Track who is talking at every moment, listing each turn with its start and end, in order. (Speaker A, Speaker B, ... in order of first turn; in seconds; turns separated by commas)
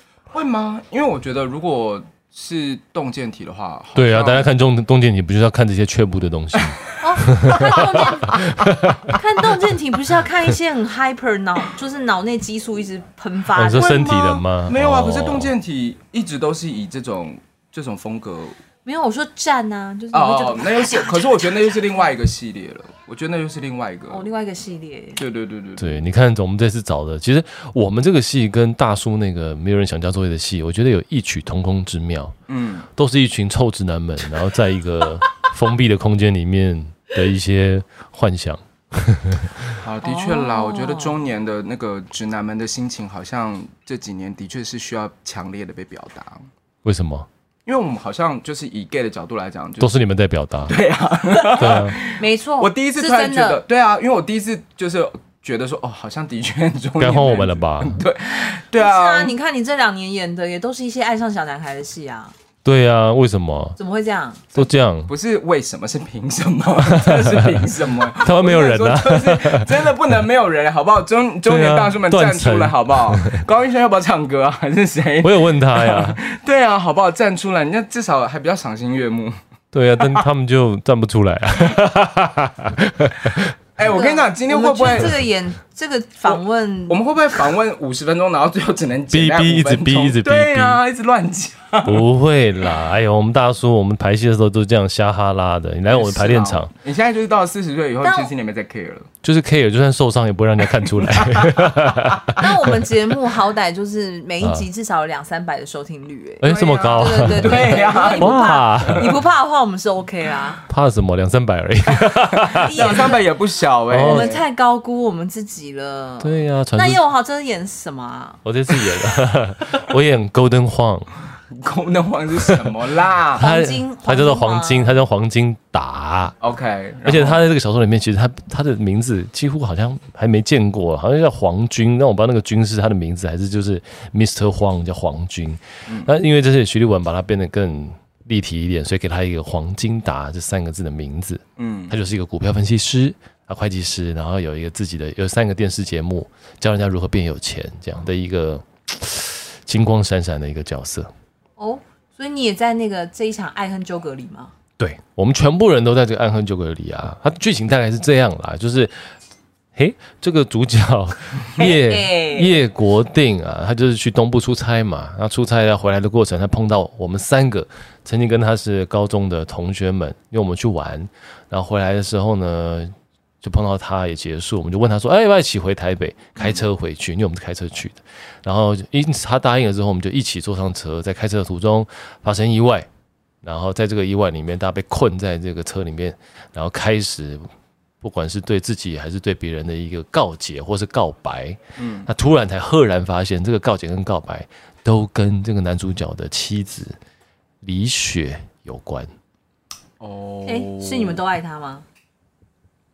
Speaker A: 0.3-4.5, Speaker B: 3.9-9.4, Speaker C: 7.0-14.4, Speaker B: 13.5-15.5, Speaker A: 14.6-18.6, Speaker C: 18.8-21.8, Speaker A: 20.1-24.3, Speaker C: 24.1-25.2, Speaker A: 25.2-26.0, Speaker B: 25.8-32.4, Speaker A: 32.5-32.9, Speaker B: 32.9-39.8, Speaker A: 39.8-46.5, Speaker C: 40.0-41.1, Speaker B: 46.8-47.3, Speaker A: 47.6-49.9, Speaker B: 49.8-50.8, Speaker A: 50.6-59.3, Speaker C: 51.5-53.6, Speaker B: 51.6-51.9, Speaker B: 57.0-58.0, Speaker C: 58.7-62.3, Speaker B: 62.6-63.8, Speaker C: 63.8-64.5, Speaker B: 64.5-65.1, Speaker A: 65.1-79.4, Speaker B: 66.9-69.7, Speaker B: 71.5-73.4, Speaker B: 75.2-76.2, Speaker B: 79.7-83.5, Speaker A: 83.8-85.2, Speaker C: 83.8-87.0, Speaker A: 86.2-92.0, Speaker B: 89.1-90.8, Speaker B: 91.8-96.7, Speaker A: 95.9-99.1, Speaker C: 98.0-98.3, Speaker B: 99.2-102.8, Speaker A: 101.0-101.6, Speaker C: 102.3-110.6, Speaker B: 104.4-104.7, Speaker B: 106.4-109.2, Speaker A: 106.4-109.1, Speaker B: 110.7-112.9, Speaker A: 112.2-114.4, Speaker C: 112.5-113.2, Speaker B: 113.9-114.3, Speaker C: 114.0-118.4, Speaker B: 116.2-117.0, Speaker B: 118.4-121.1, Speaker A: 121.5-123.4, Speaker C: 123.4-125.0, Speaker B: 123.4-126.3, Speaker A: 126.4-127.4, Speaker B: 127.0-151.1, Speaker A: 135.9-136.1, Speaker A: 141.6-141.9, Speaker C: 151.6-154.5, Speaker B: 154.8-159.1, Speaker B: 159.7-182.9, Speaker C: 161.6-162.6, Speaker A: 176.4-176.6, Speaker B: 183.4-187.5, Speaker B: 188.0-196.9, Speaker A: 191.8-192.1, Speaker B: 197.6-199.1, Speaker A: 200.0-201.2, Speaker C: 200.4-201.8